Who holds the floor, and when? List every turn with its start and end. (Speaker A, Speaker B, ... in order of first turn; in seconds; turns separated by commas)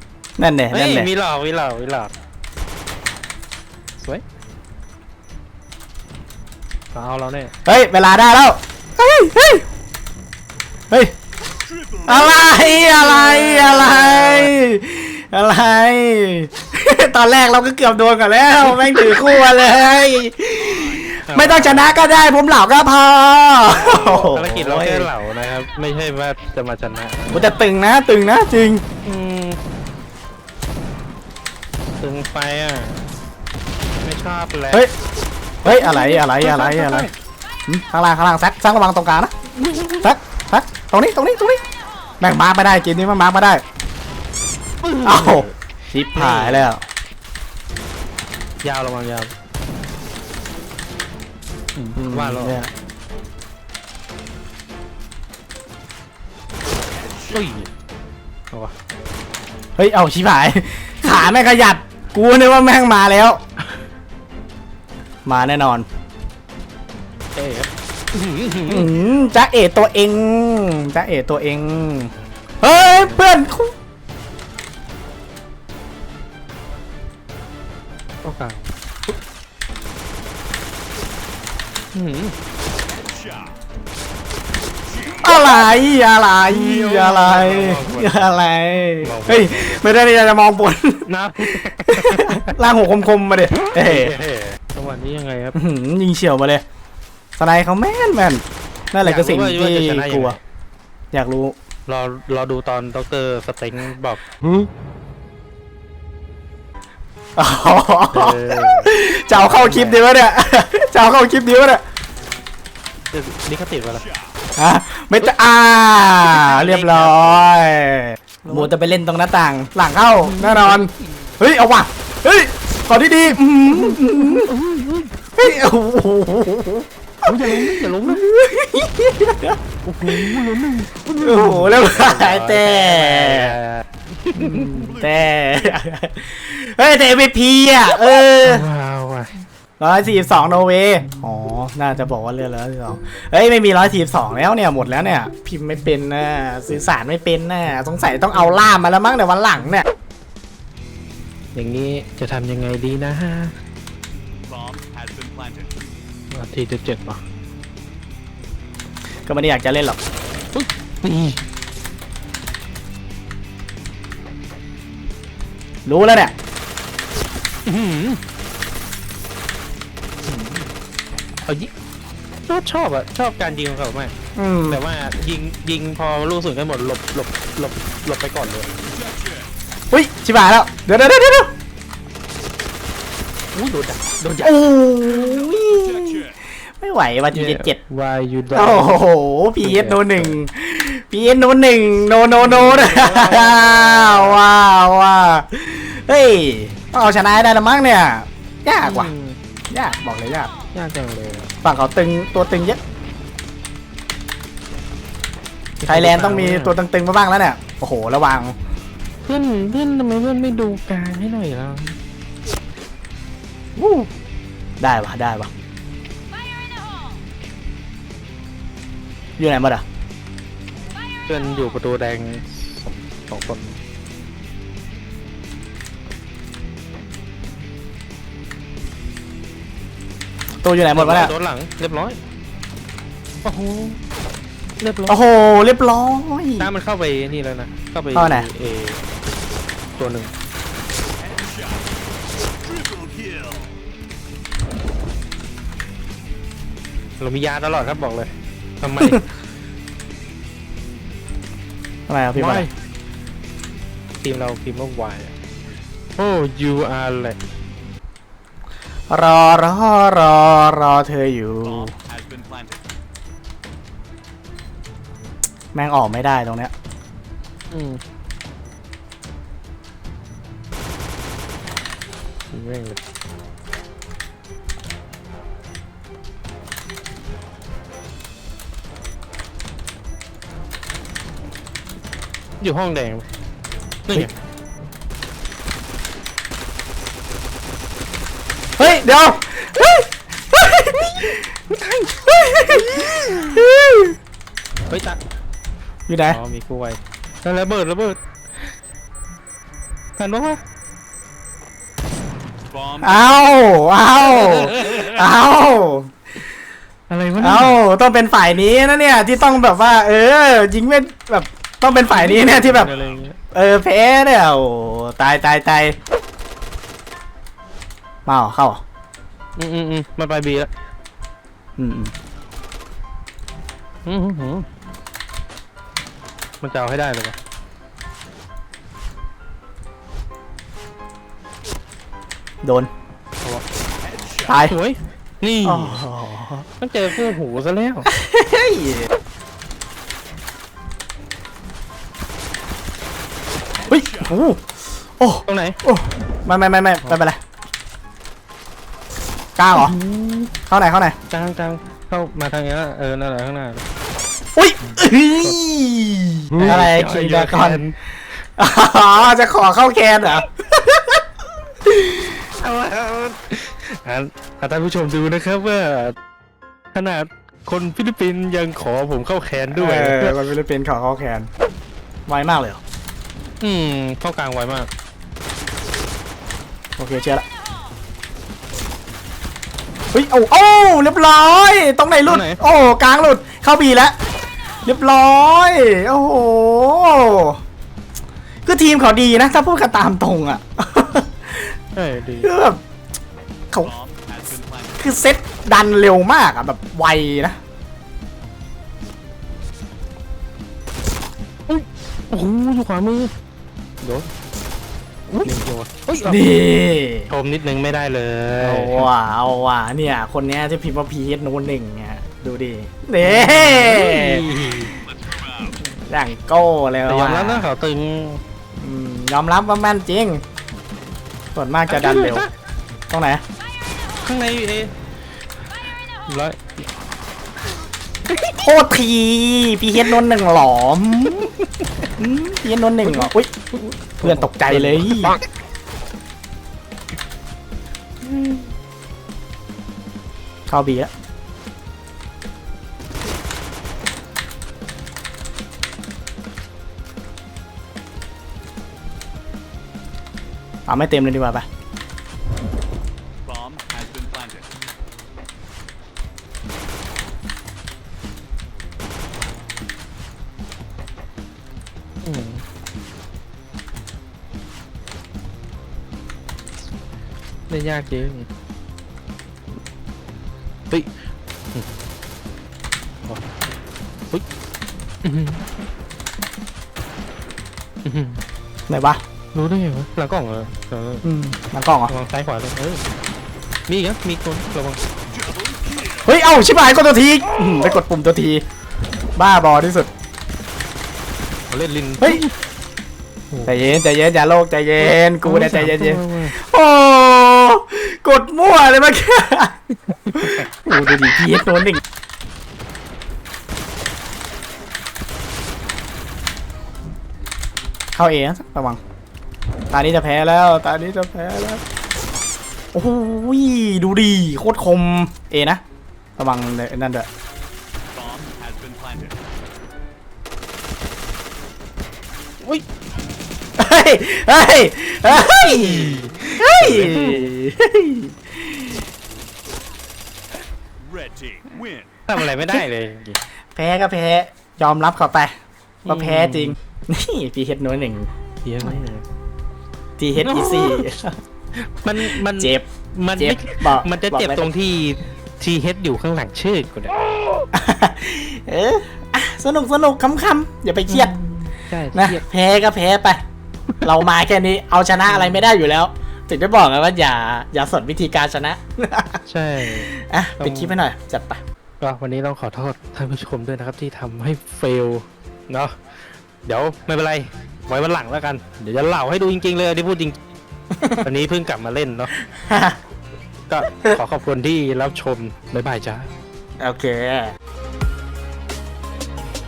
Speaker A: 0.4-1.1, Speaker B: 0.7-2.1, Speaker B: 6.9-7.5, Speaker A: 7.7-9.6, Speaker A: 12.0-25.1, Speaker B: 12.6-14.5, Speaker B: 18.8-19.4, Speaker B: 21.3-22.0, Speaker B: 23.7-27.6, Speaker A: 27.3-28.9, Speaker B: 29.0-29.6, Speaker B: 32.0-33.0, Speaker B: 34.0-34.9, Speaker A: 35.6-37.1, Speaker B: 35.6-37.1, Speaker A: 37.7-39.3, Speaker B: 39.6-40.2, Speaker A: 40.0-41.6, Speaker A: 42.2-43.6, Speaker B: 44.8-45.5, Speaker A: 45.0-46.8, Speaker B: 46.1-46.7, Speaker B: 48.6-49.3, Speaker B: 51.8-52.6, Speaker A: 52.0-52.7, Speaker B: 57.2-57.7, Speaker A: 59.8-63.4, Speaker A: 65.3-65.9, Speaker B: 67.3-69.0, Speaker A: 68.7-73.7, Speaker B: 72.7-73.2, Speaker B: 78.2-78.7, Speaker B: 81.9-82.4, Speaker A: 85.2-94.2, Speaker B: 86.5-88.3, Speaker B: 89.0-89.8, Speaker B: 91.1-92.6, Speaker B: 93.7-95.6, Speaker A: 95.5-96.6, Speaker A: 97.4-100.4, Speaker B: 99.0-100.4, Speaker A: 101.1-101.6, Speaker B: 101.9-104.2, Speaker A: 107.4-111.8, Speaker B: 108.1-110.1, Speaker B: 113.1-114.1, Speaker A: 114.6-124.5, Speaker B: 116.2-117.5, Speaker B: 118.4-118.7, Speaker B: 120.2-120.9, Speaker B: 123.5-125.2, Speaker A: 125.4-130.4, Speaker B: 127.2-128.2, Speaker B: 129.8-135.0, Speaker A: 131.2-133.6, Speaker A: 134.3-138.7, Speaker B: 137.9-139.4, Speaker A: 139.8-149.9, Speaker B: 151.5-153.5, Speaker C: 154.5-155.6, Speaker B: 156.3-157.2, Speaker A: 159.3-160.0, Speaker B: 160.5-161.4, Speaker A: 165.9-166.3, Speaker B: 167.7-168.2, Speaker B: 170.3-170.7, Speaker B: 171.4-171.7, Speaker B: 172.5-174.1, Speaker A: 174.3-174.8, Speaker B: 174.7-178.7, Speaker A: 179.9-181.5, Speaker B: 183.5-185.4, Speaker A: 184.4-187.8, Speaker B: 187.3-189.0, Speaker A: 188.5-199.1, Speaker B: 189.6-190.3, Speaker B: 192.4-194.4, Speaker B: 198.8-199.4, Speaker A: 199.7-200.5, Speaker B: 200.7-201.5, Speaker A: 201.6-202.8, Speaker B: 205.8-206.8, Speaker A: 205.9-208.6, Speaker B: 209.2-212.0, Speaker A: 213.8-214.1, Speaker A: 214.8-215.5, Speaker A: 219.4-219.8, Speaker B: 221.3-223.8, Speaker A: 230.6-231.3, Speaker B: 230.9-232.2, Speaker B: 233.4-234.0, Speaker B: 234.8-235.2, Speaker A: 235.1-236.7, Speaker B: 236.6-239.1, Speaker A: 238.1-238.5, Speaker B: 240.0-240.3, Speaker C: 243.0-243.6, Speaker B: 247.2-249.2, Speaker A: 252.1-252.7, Speaker B: 252.3-252.7, Speaker B: 254.2-255.3, Speaker B: 256.2-257.4, Speaker A: 259.1-261.9, Speaker C: 262.3-262.7, Speaker A: 265.7-266.7, Speaker B: 267.7-268.0, Speaker B: 272.5-273.0, Speaker B: 282.6-283.2, Speaker A: 288.8-294.1, Speaker B: 293.1-293.6, Speaker B: 294.9-295.2, Speaker A: 296.1-296.4, Speaker B: 296.3-298.2, Speaker B: 300.2-300.6, Speaker A: 303.0-306.1, Speaker B: 304.2-305.3, Speaker B: 307.1-307.9, Speaker A: 307.4-312.9, Speaker B: 312.0-313.4, Speaker A: 313.5-315.9, Speaker A: 318.3-318.8, Speaker B: 319.6-320.7, Speaker A: 321.8-322.1, Speaker B: 324.1-324.7, Speaker B: 326.6-327.4, Speaker A: 332.6-332.9, Speaker A: 334.4-334.8, Speaker B: 334.7-336.0, Speaker A: 335.6-336.7, Speaker B: 336.8-338.1, Speaker A: 338.1-339.1, Speaker A: 343.9-344.6, Speaker A: 345.2-347.4, Speaker B: 345.5-345.8, Speaker A: 349.6-350.0, Speaker B: 349.7-350.5, Speaker A: 350.7-351.2, Speaker B: 351.3-353.9, Speaker A: 354.6-357.8, Speaker B: 354.9-355.6, Speaker B: 356.5-357.9, Speaker A: 358.6-361.1, Speaker A: 361.9-362.4, Speaker B: 362.5-366.2, Speaker B: 366.9-370.5, Speaker A: 369.7-371.5, Speaker A: 372.3-372.8, Speaker B: 373.6-374.9, Speaker A: 377.0-377.4, Speaker A: 380.1-384.1, Speaker B: 382.3-382.6, Speaker A: 384.9-387.6, Speaker A: 388.7-391.8, Speaker B: 391.9-392.5, Speaker A: 392.4-392.8, Speaker C: 394.2-394.8, Speaker A: 395.0-397.6, Speaker B: 401.7-403.3, Speaker B: 404.0-404.3, Speaker B: 405.3-406.6, Speaker A: 406.2-407.3, Speaker B: 407.3-409.1, Speaker A: 408.6-414.5, Speaker B: 413.2-415.0, Speaker A: 416.1-417.7, Speaker B: 417.1-418.4, Speaker A: 418.8-420.4, Speaker A: 421.6-422.5, Speaker B: 421.9-422.5, Speaker A: 423.1-423.4, Speaker B: 424.2-424.9, Speaker B: 426.3-426.9, Speaker A: 428.6-433.5, Speaker B: 433.0-435.4, Speaker A: 434.2-435.4, Speaker B: 438.2-438.7, Speaker A: 440.7-441.1, Speaker A: 450.9-451.7, Speaker C: 453.5-454.6, Speaker B: 462.2-462.6, Speaker B: 467.7-468.5, Speaker B: 475.2-475.6, Speaker B: 478.0-478.4, Speaker A: 478.9-479.2, Speaker B: 479.5-481.2, Speaker A: 481.2-482.1, Speaker B: 482.1-483.1, Speaker B: 483.9-485.0, Speaker A: 486.2-488.6, Speaker A: 489.4-490.1, Speaker B: 491.7-492.5, Speaker B: 493.5-493.8, Speaker A: 493.6-499.8, Speaker B: 495.0-496.6, Speaker B: 500.2-500.7, Speaker A: 500.3-502.0, Speaker A: 508.1-509.0, Speaker A: 509.9-511.8, Speaker A: 512.9-515.8, Speaker A: 516.4-517.3, Speaker C: 518.2-519.3, Speaker A: 523.8-528.9, Speaker B: 525.3-527.5, Speaker B: 532.3-533.4, Speaker A: 532.4-532.7, Speaker A: 533.7-535.5, Speaker B: 536.0-536.8, Speaker A: 536.1-538.3, Speaker B: 538.6-539.2, Speaker A: 540.2-541.4, Speaker B: 540.4-541.1, Speaker B: 541.8-547.1, Speaker A: 542.3-542.9, Speaker A: 543.4-544.7, Speaker A: 547.7-551.3, Speaker B: 551.1-552.5, Speaker A: 552.1-553.4, Speaker A: 554.0-559.4, Speaker B: 555.3-555.7, Speaker B: 559.5-561.0, Speaker A: 560.0-561.6, Speaker B: 562.0-566.0, Speaker B: 566.6-570.4, Speaker B: 571.2-572.3, Speaker A: 572.5-573.0, Speaker B: 573.7-576.3, Speaker A: 573.9-574.2, Speaker A: 576.8-577.5